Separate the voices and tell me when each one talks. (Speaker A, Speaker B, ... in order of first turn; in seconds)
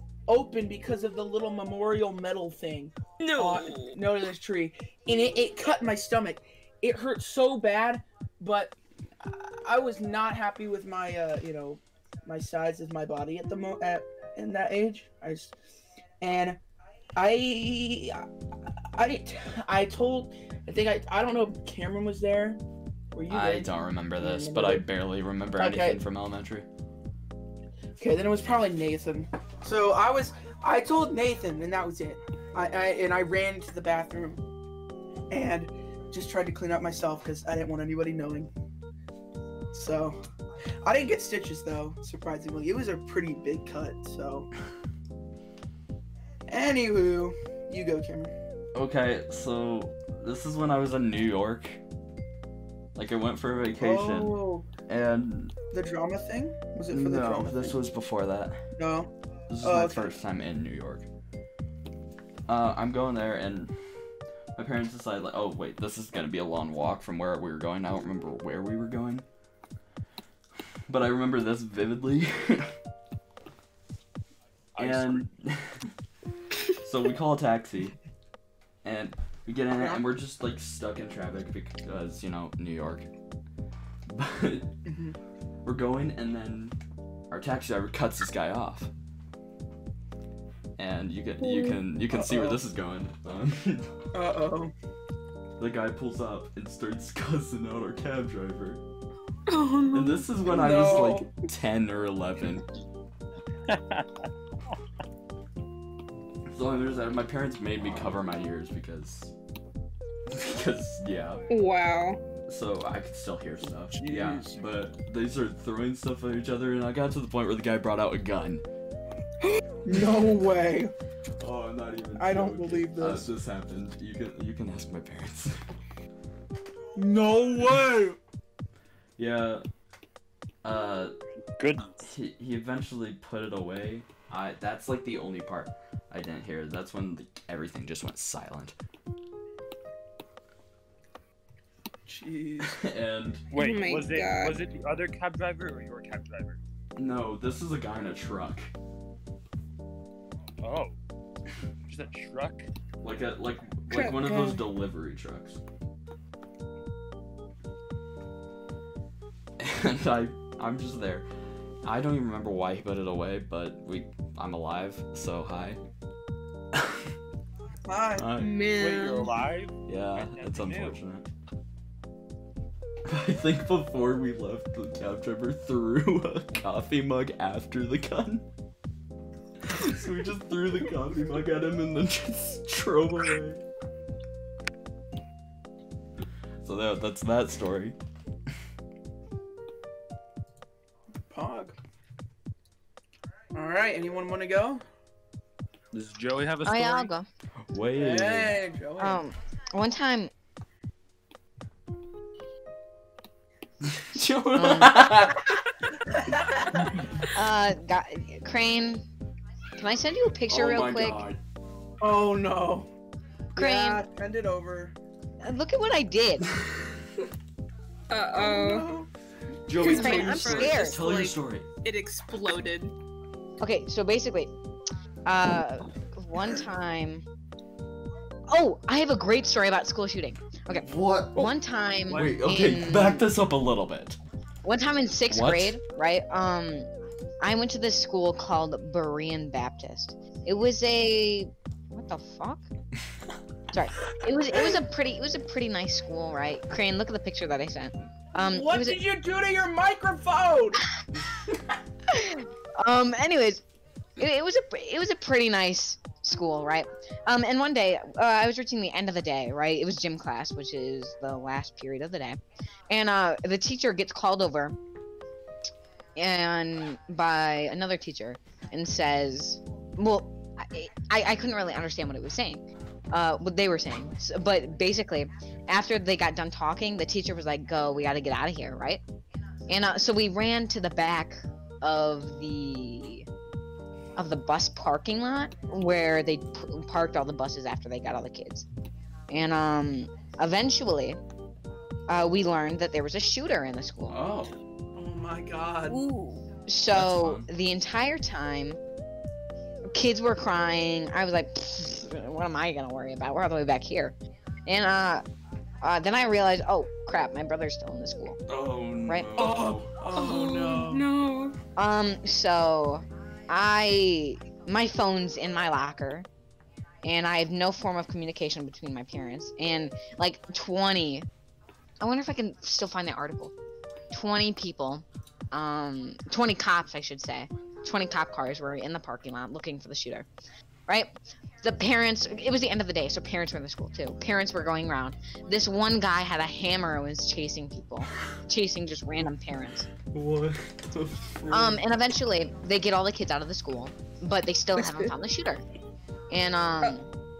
Speaker A: 0.3-15.5, 16.2-16.6, 17.1-18.3, 18.9-22.6, 23.1-24.9, 25.6-26.0, 28.0-34.4, 35.3-38.5, 39.7-40.1, 40.8-44.5, 46.5-48.3, 53.8-54.7, 55.7-57.8, 58.8-59.1, 59.6-60.1, 79.8-80.1, 84.9-85.2, 92.1-92.6, 94.1-94.7, 100.5-101.4, 113.9-114.6, 119.8-120.9, 122.2-123.3, 127.0-128.2, 142.1-142.8, 167.9-168.3, 191.3-191.8, 193.5-194.8, 197.9-199.2, 206.1-206.7, 212.0-212.9, 213.6-214.9, 218.3-219.1, 248.3-250.8, 295.0-296.0, 309.4-311.1
Speaker B: 3.2-4.0, 91.4-91.8, 99.5-100.3, 111.5-112.2, 143.5-144.6, 153.9-154.6, 168.4-169.4, 218.1-218.9, 219.8-222.9, 295.9-296.4, 310.1-311.6, 344.8-345.1
Speaker C: 23.3-26.7, 48.7-51.8, 53.0-55.5, 56.9-58.6, 59.5-61.1, 62.5-63.7, 64.6-69.2, 70.9-72.7, 74.8-75.8, 76.8-78.0, 78.8-83.1, 84.1-84.7, 85.6-86.8, 87.3-88.9, 90.8-93.9, 95.6-98.8, 99.9-102.6, 106.5-109.3, 110.3-111.4, 112.5-118.6, 121.4-125.6, 129.2-129.6, 130.6-131.1, 132.1-138.8, 142.6-143.4, 147.0-148.7, 153.0-155.6, 159.6-161.3, 161.8-165.8, 166.7-167.1, 168.2-168.6, 169.9-171.3, 173.1-178.4, 179.6-183.6, 186.6-188.0, 197.7-198.6, 203.8-205.6, 210.5-211.4, 219.7-221.7, 230.8-231.5, 232.1-234.2, 235.3-235.8, 294.1-294.6, 296.9-297.5, 308.5-309.9, 340.1-341.8
Speaker D: 74.8-75.3, 103.7-104.3, 131.6-132.1, 143.5-146.6, 150.6-151.0, 151.9-152.7, 168.8-171.0, 195.9-197.1, 232.1-232.4
Speaker E: 196.6-197.3, 199.0-200.3, 204.6-205.1, 207.2-209.1, 209.8-211.2, 213.6-214.0, 215.4-216.5, 219.8-221.0, 223.6-224.5, 225.3-227.2, 228.5-233.3, 234.6-236.9, 237.4-242.7, 243.7-249.0, 252.1-253.6, 254.2-262.4, 262.9-264.8, 266.1-279.0, 279.7-283.3, 284.1-288.6, 289.3-291.2, 292.1-294.2, 296.6-298.8, 299.9-305.2, 305.8-308.4, 311.8-316.3, 317.0-321.3, 322.0-323.5, 324.1-330.3, 330.9-339.9, 341.5-345.6, 346.3-347.1